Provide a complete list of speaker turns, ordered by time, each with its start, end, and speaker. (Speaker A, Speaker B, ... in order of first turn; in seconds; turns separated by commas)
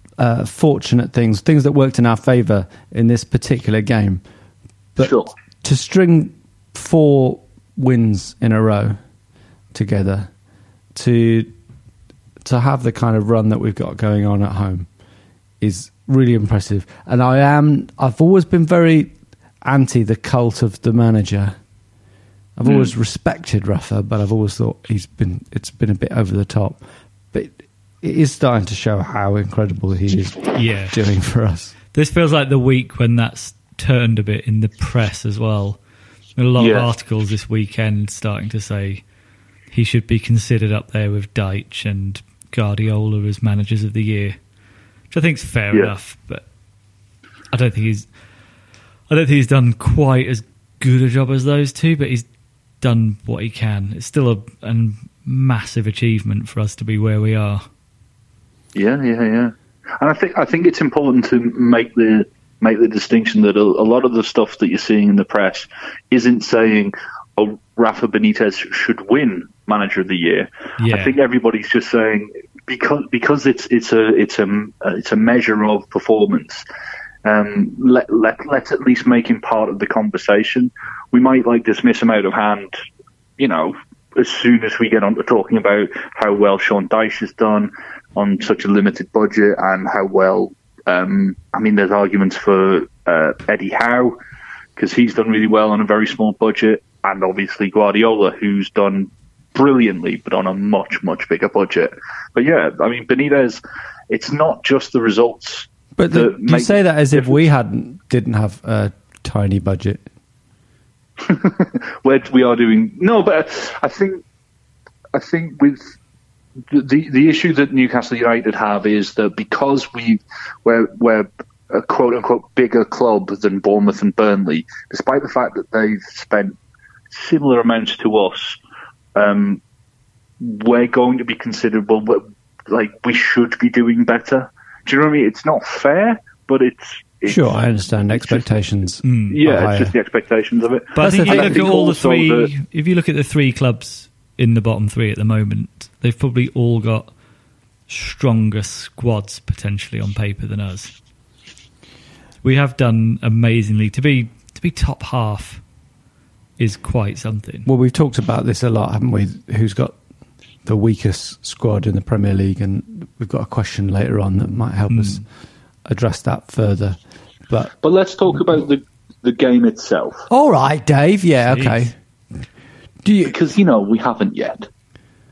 Speaker A: 0.2-4.2, Speaker A: 5.0-9.0, Speaker B: 5.0-5.3, Speaker A: 9.7-10.3, Speaker A: 10.9-11.5, Speaker A: 12.4-14.9, Speaker A: 15.6-19.1, Speaker A: 19.6-21.5, Speaker A: 22.6-31.7, Speaker B: 22.6-22.9, Speaker C: 30.5-30.9, Speaker C: 31.9-35.8, Speaker C: 36.4-39.0, Speaker B: 36.6-36.9, Speaker C: 39.7-44.4, Speaker C: 45.1-46.4, Speaker C: 47.5-48.1, Speaker C: 49.1-52.3, Speaker C: 52.8-57.6, Speaker B: 58.7-76.6, Speaker C: 70.8-71.1, Speaker B: 77.2-82.7, Speaker B: 83.4-94.2, Speaker B: 94.8-107.5, Speaker A: 106.0-110.0, Speaker B: 111.2-114.2, Speaker B: 115.1-115.9, Speaker B: 116.7-126.6, Speaker B: 127.1-128.6, Speaker B: 129.1-129.6, Speaker B: 130.4-138.5, Speaker A: 137.2-139.9, Speaker C: 139.0-139.4, Speaker B: 139.3-142.5, Speaker C: 140.9-147.1, Speaker A: 141.0-141.7, Speaker C: 147.9-150.9, Speaker C: 152.4-155.6, Speaker C: 156.6-157.7, Speaker A: 157.7-159.9, Speaker A: 160.6-165.2, Speaker C: 164.9-165.2, Speaker A: 165.8-167.0, Speaker B: 167.8-170.3, Speaker A: 170.3-171.9, Speaker C: 171.4-171.9, Speaker A: 173.0-173.3, Speaker B: 173.3-174.7